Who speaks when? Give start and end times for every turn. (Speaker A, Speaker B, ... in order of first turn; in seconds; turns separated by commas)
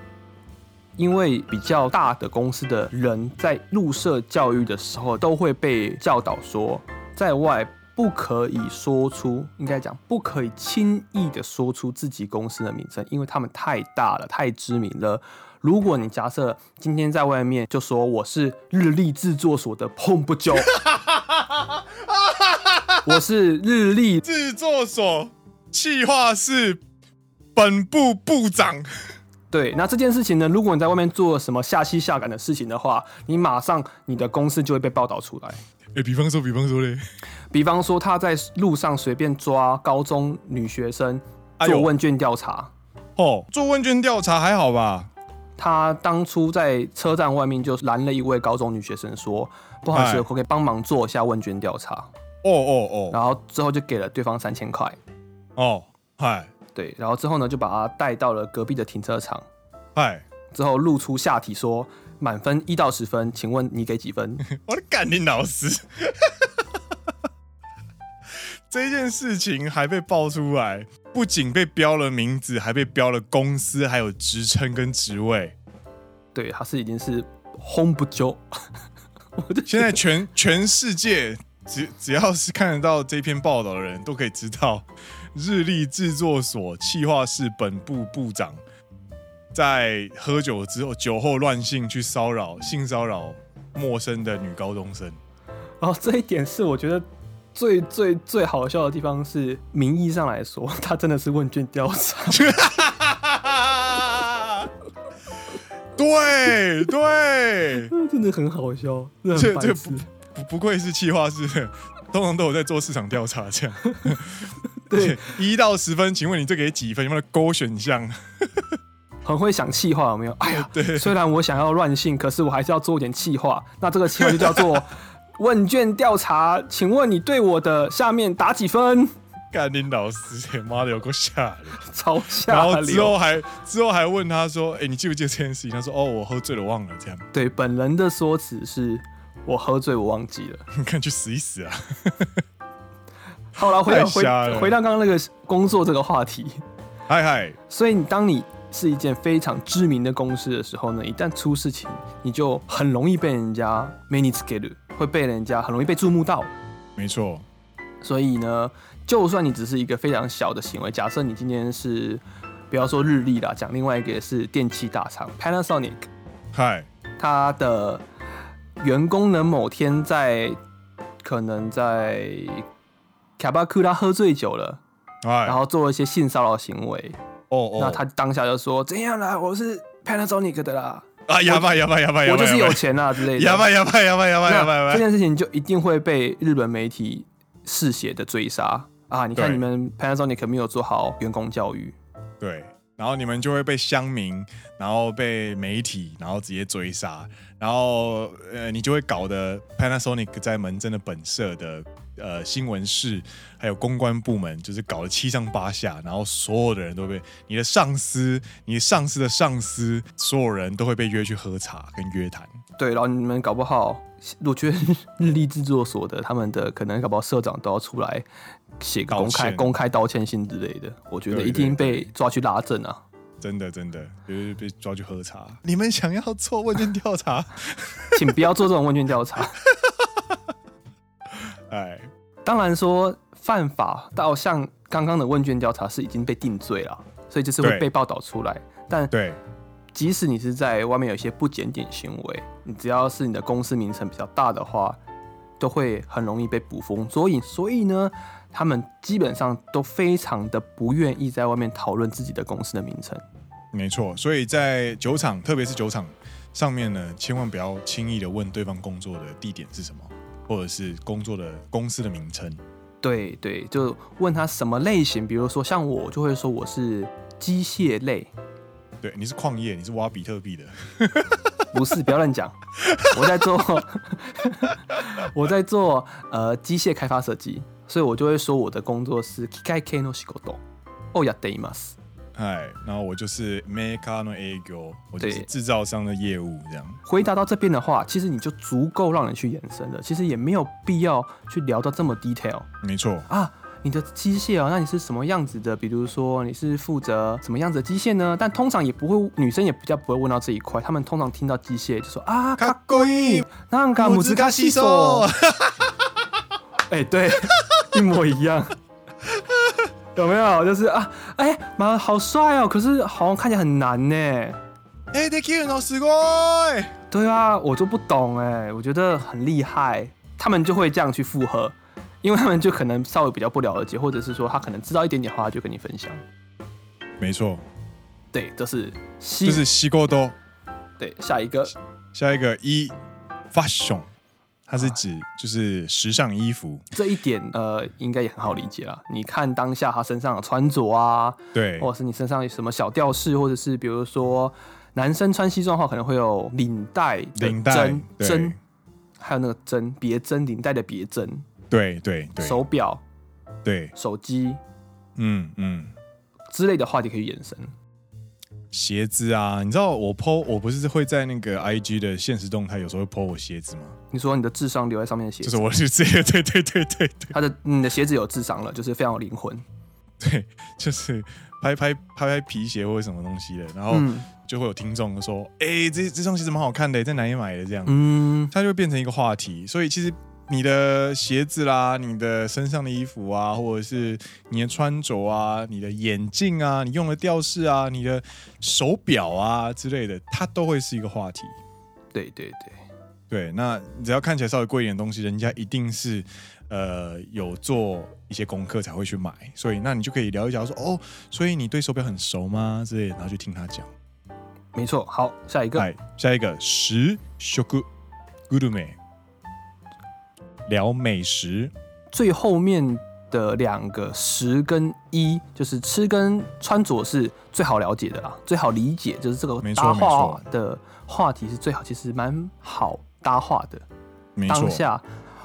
Speaker A: 1.0-20.7, Speaker B: 20.7-23.2, Speaker A: 23.1-24.2, Speaker B: 24.2-26.8, Speaker B: 27.6-28.9, Speaker A: 29.5-35.6, Speaker B: 36.0-37.0, Speaker A: 37.5-42.7, Speaker B: 41.6-41.9, Speaker B: 43.2-45.1, Speaker A: 45.6-52.1, Speaker B: 49.9-50.2, Speaker B: 52.4-53.2, Speaker A: 53.1-55.0, Speaker B: 55.6-56.5, Speaker A: 56.7-59.5, Speaker B: 60.0-60.2, Speaker A: 60.5-64.4, Speaker B: 64.4-66.5, Speaker B: 68.7-75.6, Speaker A: 76.3-78.4, Speaker A: 79.4-80.0, Speaker B: 79.7-88.6, Speaker B: 89.5-95.2, Speaker A: 95.8-102.6, Speaker B: 102.3-104.7, Speaker B: 106.0-107.9, Speaker A: 107.9-110.1, Speaker B: 109.3-118.7, Speaker A: 114.9-115.3, Speaker A: 119.2-129.1, Speaker B: 120.5-121.2, Speaker B: 124.2-124.8, Speaker B: 129.5-131.8, Speaker A: 131.8-133.2, Speaker B: 132.5-137.3, Speaker A: 137.3-140.6, Speaker B: 140.7-142.4, Speaker A: 143.6-146.6, Speaker B: 143.7-144.8, Speaker B: 147.1-147.6, Speaker A: 147.7-156.5, Speaker B: 157.0-157.5, Speaker A: 158.0-166.1, Speaker B: 166.5-166.9, Speaker A: 167.2-168.1, Speaker A: 168.8-170.6, Speaker A: 171.2-172.6, Speaker A: 173.4-174.8, Speaker B: 175.2-175.6, Speaker A: 175.4-177.2, Speaker B: 177.5-178.0, Speaker A: 177.8-181.7, Speaker B: 181.3-185.1, Speaker A: 182.2-183.7, Speaker A: 184.5-192.0, Speaker B: 189.3-189.6, Speaker B: 192.4-212.6, Speaker A: 212.8-218.3, Speaker A: 218.8-223.0, Speaker B: 219.1-219.7, Speaker B: 221.3-222.1, Speaker B: 223.4-228.3, Speaker A: 228.1-229.6, Speaker B: 231.7-232.1, Speaker A: 232.4-239.1, Speaker B: 237.6-237.9, Speaker B: 239.1-239.4, Speaker A: 239.9-245.0, Speaker A: 245.6-253.2, Speaker B: 253.7-262.6, Speaker A: 263.0-268.3, Speaker B: 269.0-271.6, Speaker A: 271.7-280.6, Speaker B: 272.8-273.1, Speaker A: 281.1-282.0, Speaker B: 282.4-287.0, Speaker A: 285.2-285.5, Speaker A: 287.1-292.7, Speaker B: 292.8-293.3, Speaker A: 293.3-305.3, Speaker B: 302.6-303.5, Speaker B: 304.0-305.9, Speaker A: 306.9-308.8, Speaker A: 310.1-314.6, Speaker B: 315.1-316.9, Speaker A: 317.1-326.2, Speaker B: 327.2-327.6, Speaker A: 328.3-329.6, Speaker B: 329.4-330.4, Speaker A: 331.0-331.7, Speaker B: 332.1-332.9, Speaker B: 333.5-334.1, Speaker B: 334.7-336.9, Speaker A: 336.9-348.6, Speaker B: 341.5-341.9, Speaker B: 347.4-348.6, Speaker A: 349.2-351.4, Speaker B: 351.7-352.6, Speaker A: 352.4-353.0, Speaker B: 353.6-353.9, Speaker A: 353.9-354.6, Speaker B: 355.2-355.9, Speaker A: 356.5-357.7, Speaker B: 358.7-364.0, Speaker A: 364.1-365.7, Speaker B: 365.4-367.4, Speaker A: 367.3-369.6, Speaker B: 370.2-378.0, Speaker A: 373.9-374.3, Speaker A: 377.9-378.5, Speaker B: 378.5-391.6, Speaker A: 392.1-392.8, Speaker B: 393.3-403.9, Speaker A: 404.8-405.9, Speaker B: 405.8-407.9, Speaker B: 408.5-409.0, Speaker B: 410.7-411.7, Speaker A: 412.1-423.9, Speaker B: 419.6-420.4, Speaker B: 424.4-424.8, Speaker A: 424.5-425.1